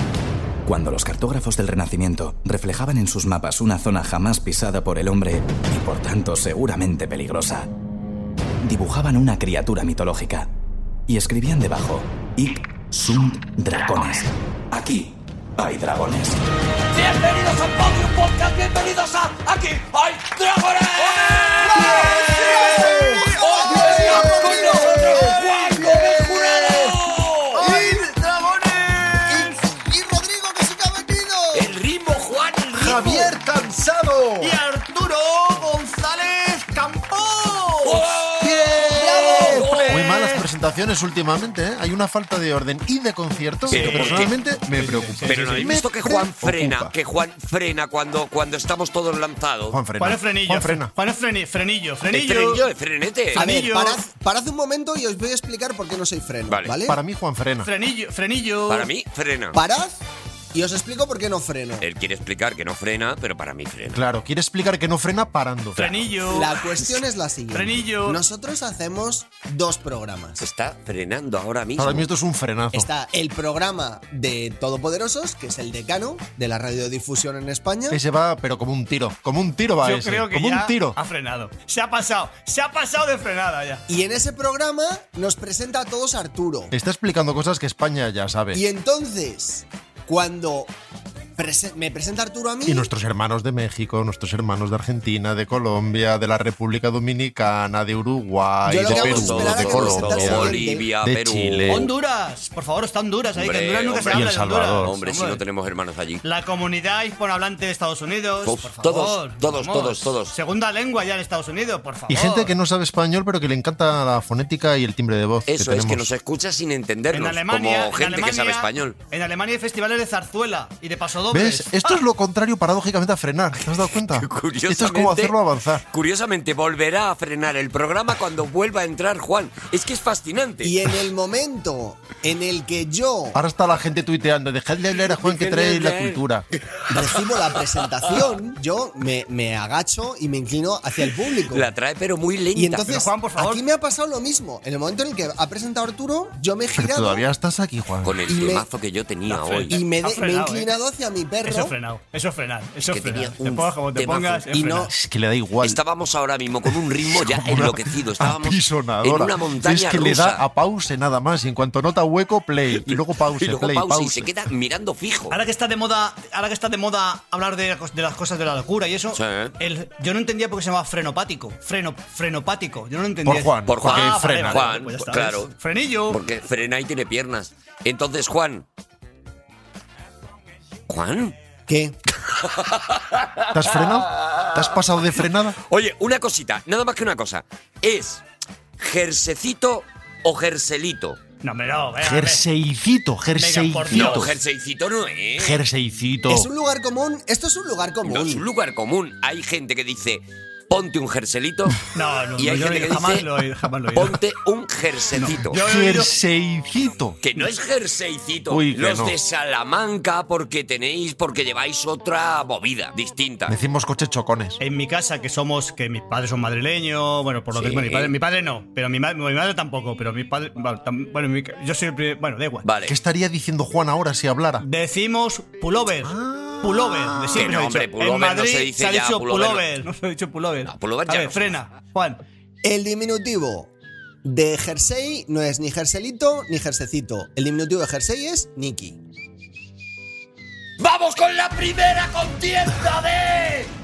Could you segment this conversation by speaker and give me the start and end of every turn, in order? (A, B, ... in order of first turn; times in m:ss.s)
0:00.6-0:07.7 A
0:08.6-0:10.5 A
0:11.1-0:16.5 A
0:16.9-0:27.7 B
0:21.6-0:26.3 C
0:21.9-0:24.7 D
0:24.7-0:25.3 E
0:25.8-0:27.0 E
0:27.5-0:29.5 D
0:27.6-0:28.2 C
0:29.3-0:31.7 C
0:31.5-0:33.1 B
0:32.7-0:34.6 E
0:32.9-0:33.2 C
0:34.4-0:38.2 D
0:37.8-0:40.3 B
0:38.4-0:46.9 E
0:39.0-0:39.7 C
0:39.0-0:40.1 D
0:43.7-0:45.7 D
0:43.7-0:44.3 B
0:45.2-0:49.8 B
0:49.7-0:50.9 E
0:50.0-0:52.6 D
0:52.1-0:53.4 B
0:53.3-0:54.0 D
0:53.3-0:57.0 C
0:56.5-0:56.8 B
0:56.9-0:57.7 E
0:57.6-0:58.9 D
0:58.7-0:59.6 B
0:59.5-1:00.0 C
1:00.5-1:01.9 C
1:01.8-1:04.0 B
1:03.9-1:06.1 E
1:05.8-1:06.6 D
1:06.2-1:10.4 C
1:07.5-1:08.2 D
1:10.4-1:12.1 B
1:11.8-1:12.9 E
1:12.7-1:18.0 C
1:17.9-1:21.0 E
1:19.8-1:23.8 D
1:23.9-1:26.7 C
1:26.7-1:28.6 E
1:28.5-1:30.7 C
1:31.4-1:32.9 C
1:32.6-1:41.9 E
1:38.6-1:40.9 C
1:38.8-1:41.9 B
1:41.7-1:45.4 D
1:43.4-1:46.2 B
1:44.1-1:45.0 E
1:46.2-1:52.5 D
1:48.4-1:50.3 B
1:52.1-1:56.1 E
1:55.5-1:59.0 B
1:57.1-2:02.0 D
2:01.3-2:05.8 E
2:04.2-2:05.4 B
2:05.9-2:11.0 B
2:10.6-2:13.4 C
2:13.3-2:16.5 E
2:15.0-2:18.3 B
2:16.9-2:21.7 C
2:21.5-2:22.9 B
2:22.5-2:27.2 C
2:22.8-2:23.6 D
2:26.7-2:28.3 E
2:28.0-2:29.8 B
2:28.3-2:28.6 C
2:29.3-2:30.7 D
2:29.7-2:31.7 C
2:31.4-2:34.9 D
2:32.9-2:34.5 B
2:34.5-2:34.9 C
2:34.9-2:35.8 E
2:35.6-2:40.4 B
2:36.7-2:44.3 E
2:42.8-2:45.4 B
2:45.3-2:56.2 D
2:49.1-2:49.5 B
2:53.2-2:54.8 E
2:53.6-2:55.5 B
2:56.1-2:58.6 B
3:00.9-3:01.4 B
3:01.7-3:02.0 C
3:02.3-3:08.2 B
3:03.5-3:05.6 E
3:08.8-3:11.2 B
3:11.4-3:12.4 D
3:12.0-3:14.4 E
3:13.4-3:14.2 D
3:13.9-3:15.6 B
3:15.4-3:16.5 E
3:16.3-3:18.4 C
3:18.0-3:23.3 B
3:21.9-3:24.2 D
3:23.9-3:25.6 B
3:25.2-3:26.1 D
3:25.5-3:27.2 E
3:27.2-3:33.6 B
3:28.5-3:29.2 E
3:33.5-3:34.6 E
3:34.6-3:42.6 D
3:37.5-3:38.1 B
3:42.6-3:43.0 B
3:42.9-3:44.6 E
3:44.6-3:52.2 D
3:46.0-3:47.5 E
3:47.3-3:49.6 B
3:50.6-3:51.5 B
3:52.6-3:53.7 C
3:54.2-3:59.0 C
4:00.8-4:03.7 B